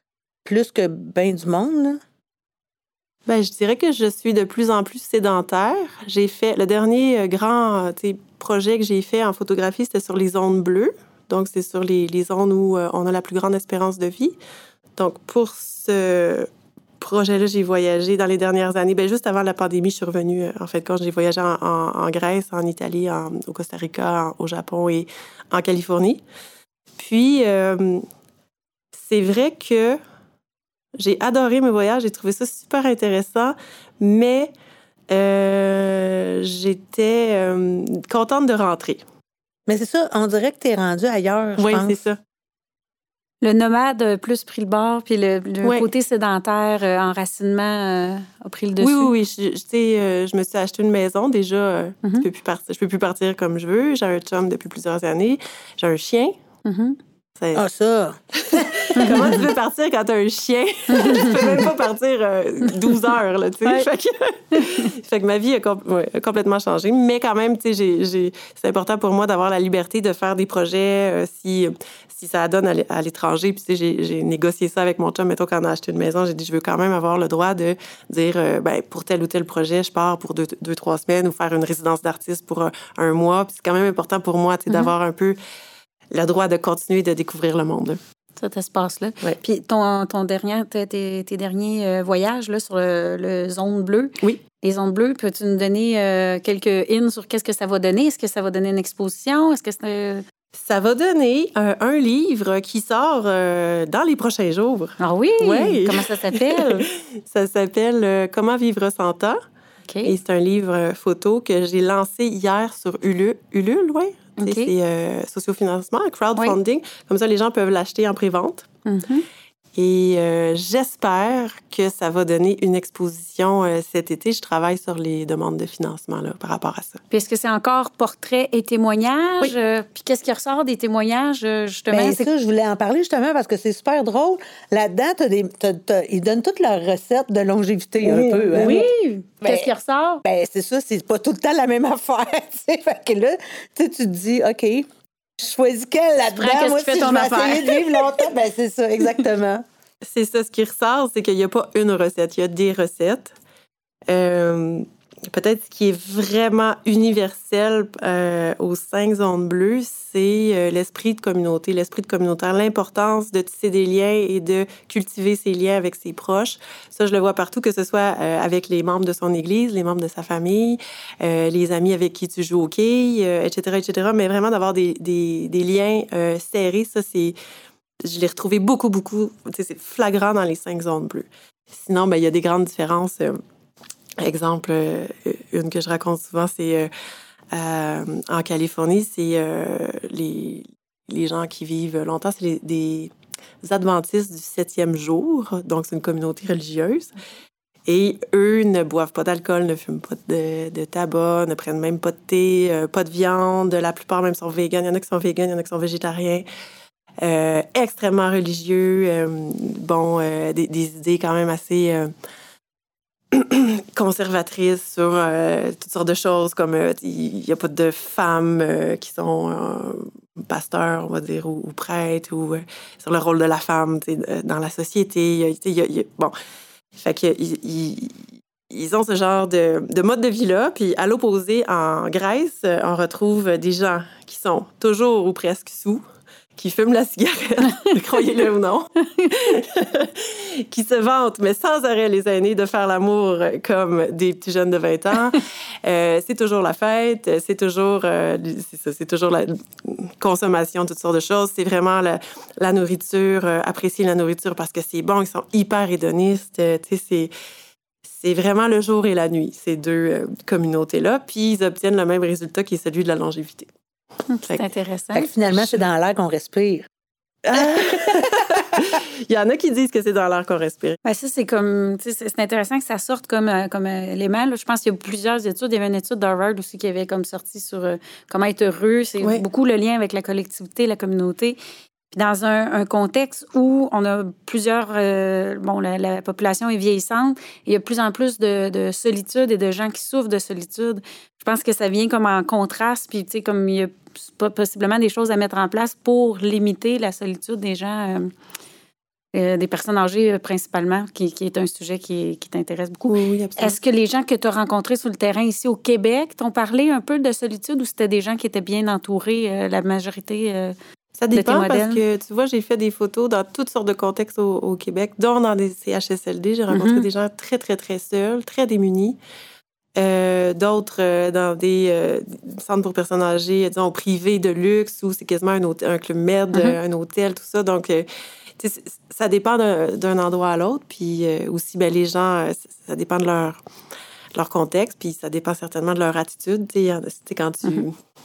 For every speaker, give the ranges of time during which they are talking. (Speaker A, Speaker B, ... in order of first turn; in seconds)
Speaker A: 0.4-2.0, 39.7-42.0, 57.5-59.2, 131.9-138.8, 139.4-139.7, 140.2-149.6, 265.1-266.9, 267.5-268.4
Speaker B: 3.3-14.3, 15.0-16.5, 17.0-26.2, 27.0-28.1, 28.9-30.0, 31.0-34.5, 35.1-39.0, 41.6-42.2, 45.6-45.9, 48.8-56.3, 57.4-57.6, 58.4-85.4, 86.1-88.0, 100.5-109.4, 110.0-118.7, 119.7-127.0, 138.0-138.8, 150.0-153.3, 154.1-177.4, 178.0-183.4, 184.2-186.9, 187.5-193.1, 193.6-197.1, 197.9-206.4, 207.2-212.1, 213.3-226.3, 226.9-236.0, 236.6-257.3, 258.0-263.7, 267.5-271.0, 303.1-303.8, 311.1-319.2, 320.0-328.1, 328.6-333.6, 334.3-337.9
Speaker C: 43.4-49.1, 56.6-57.0, 59.0-59.3, 60.9-61.4, 64.5-64.9, 88.4-100.2, 105.0-106.9, 109.9-110.1, 114.4-114.7, 118.8-119.2, 127.1-132.3, 138.5-140.2, 146.3-148.1, 264.3-265.3, 271.0-281.6, 282.1-298.3, 299.3-310.7, 311.3-312.0, 316.7-317.1